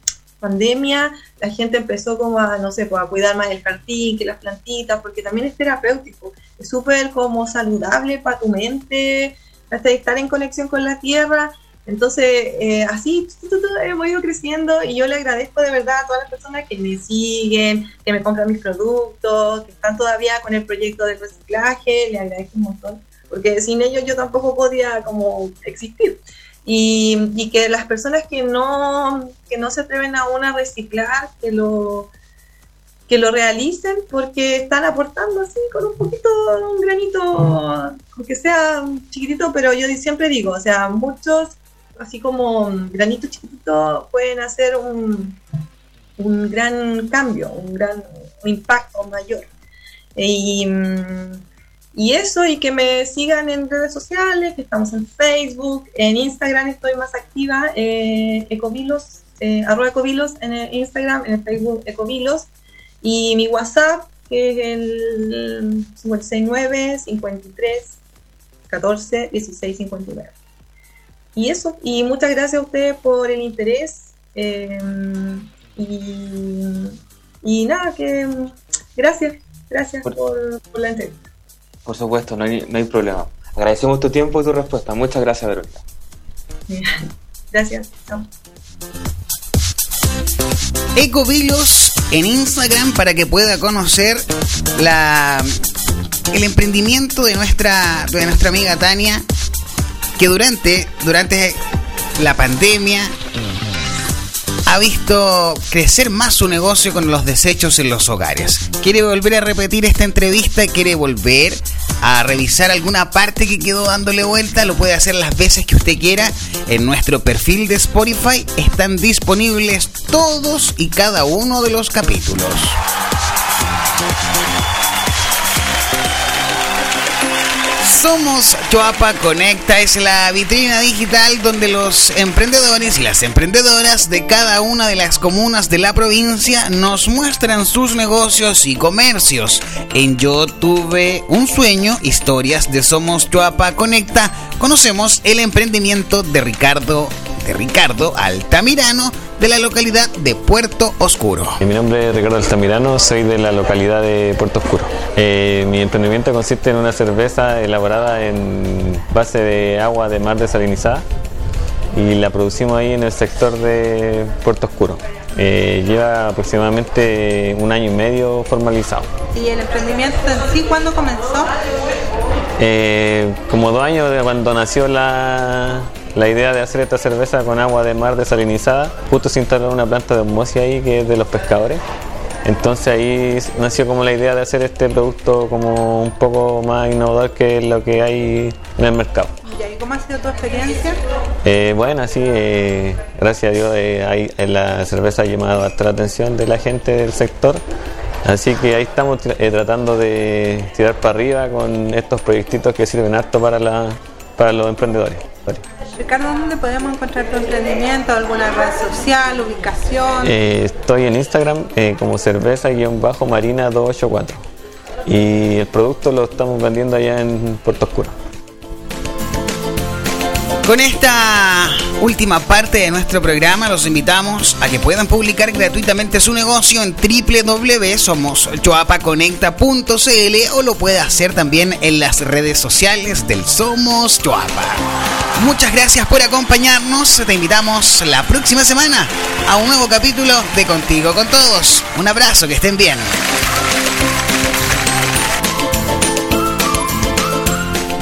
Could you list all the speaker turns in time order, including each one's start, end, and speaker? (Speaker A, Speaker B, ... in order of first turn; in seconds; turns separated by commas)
Speaker A: 0.4-32.1, Speaker A: 33.1-45.4, Speaker A: 46.2-49.5, Speaker A: 50.1-51.4, Speaker A: 51.9-62.5, Speaker A: 63.0-68.0, Speaker A: 68.7-70.3, Speaker A: 71.3-81.2, Speaker B: 81.8-85.8, Speaker A: 86.7-88.3, Speaker C: 91.0-94.2, Speaker C: 94.8-95.6, Speaker C: 96.3-99.2, Speaker C: 100.2-101.6, Speaker C: 102.2-103.1, Speaker C: 104.7-122.8, Speaker C: 127.8-151.6, Speaker D: 151.6-161.0, Speaker D: 161.9-169.1, Speaker E: 169.3-171.5, Speaker D: 172.6-181.8, Speaker D: 182.4-189.3, Speaker E: 189.4-191.0, Speaker D: 191.4-197.6, Speaker D: 198.2-205.6, Speaker E: 205.9-210.3, Speaker D: 210.2-214.4, Speaker D: 215.1-218.1, Speaker C: 220.6-234.8, Speaker C: 235.4-243.1